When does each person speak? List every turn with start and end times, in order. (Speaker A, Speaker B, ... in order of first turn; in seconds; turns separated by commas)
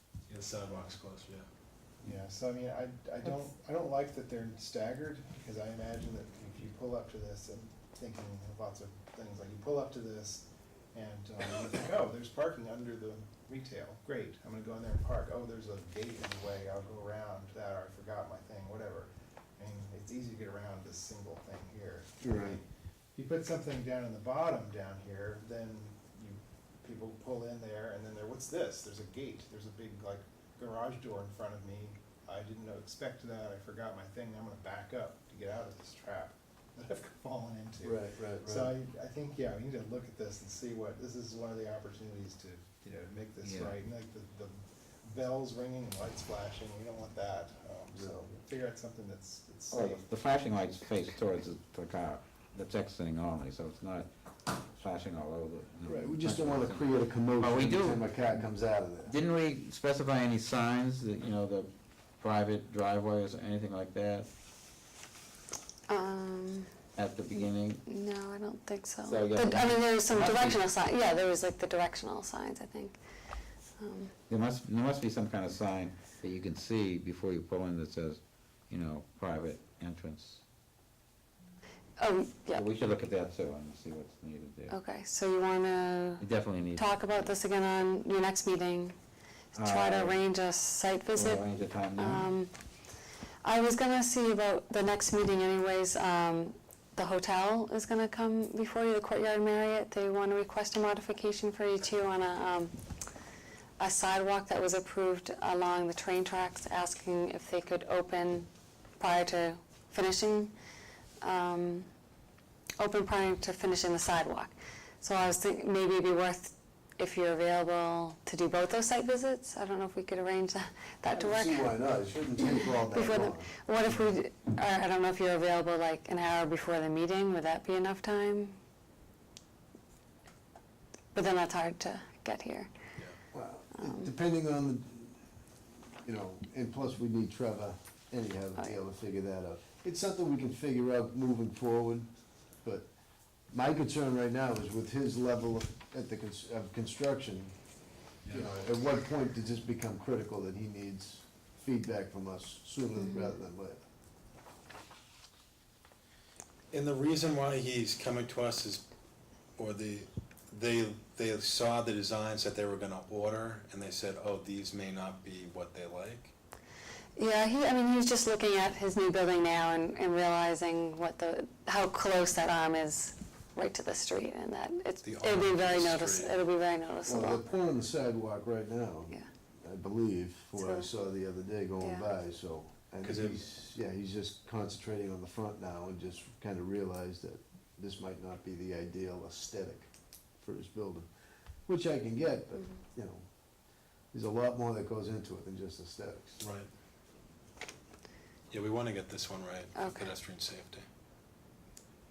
Speaker A: 0.3-1.5, Speaker B: 2.0-50.0, Speaker C: 22.2-22.6, Speaker C: 37.8-38.7, Speaker D: 43.4-43.7, Speaker C: 48.0-48.3, Speaker D: 49.7-58.3, Speaker C: 55.8-59.2, Speaker D: 59.0-64.3, Speaker E: 65.9-66.7, Speaker D: 67.0-67.8, Speaker E: 67.9-73.0, Speaker D: 69.0-70.6, Speaker E: 73.8-74.1, Speaker D: 74.3-80.4, Speaker E: 82.0-82.6, Speaker D: 82.5-84.8, Speaker E: 84.7-89.0, Speaker D: 86.2-87.3, Speaker E: 89.5-92.5, Speaker D: 89.6-90.2, Speaker D: 91.2-92.3, Speaker E: 93.4-102.7, Speaker E: 103.8-108.5, Speaker E: 109.0-110.5, Speaker E: 111.2-111.9, Speaker E: 112.8-121.7, Speaker C: 121.1-123.6, Speaker E: 122.4-128.6, Speaker E: 131.1-132.7, Speaker C: 133.3-135.2, Speaker E: 133.8-134.1, Speaker C: 136.0-142.1, Speaker C: 142.6-142.9, Speaker C: 143.5-147.5, Speaker A: 148.2-148.5, Speaker C: 148.3-153.8, Speaker E: 153.0-153.3, Speaker A: 156.7-158.8, Speaker A: 159.6-166.3, Speaker E: 167.2-177.4, Speaker A: 175.0-176.4, Speaker C: 177.1-191.1, Speaker E: 180.6-180.9, Speaker E: 181.8-182.1, Speaker A: 183.0-183.4, Speaker C: 191.7-193.2, Speaker C: 194.1-196.5, Speaker A: 196.4-196.7, Speaker A: 198.5-200.8, Speaker E: 199.8-200.1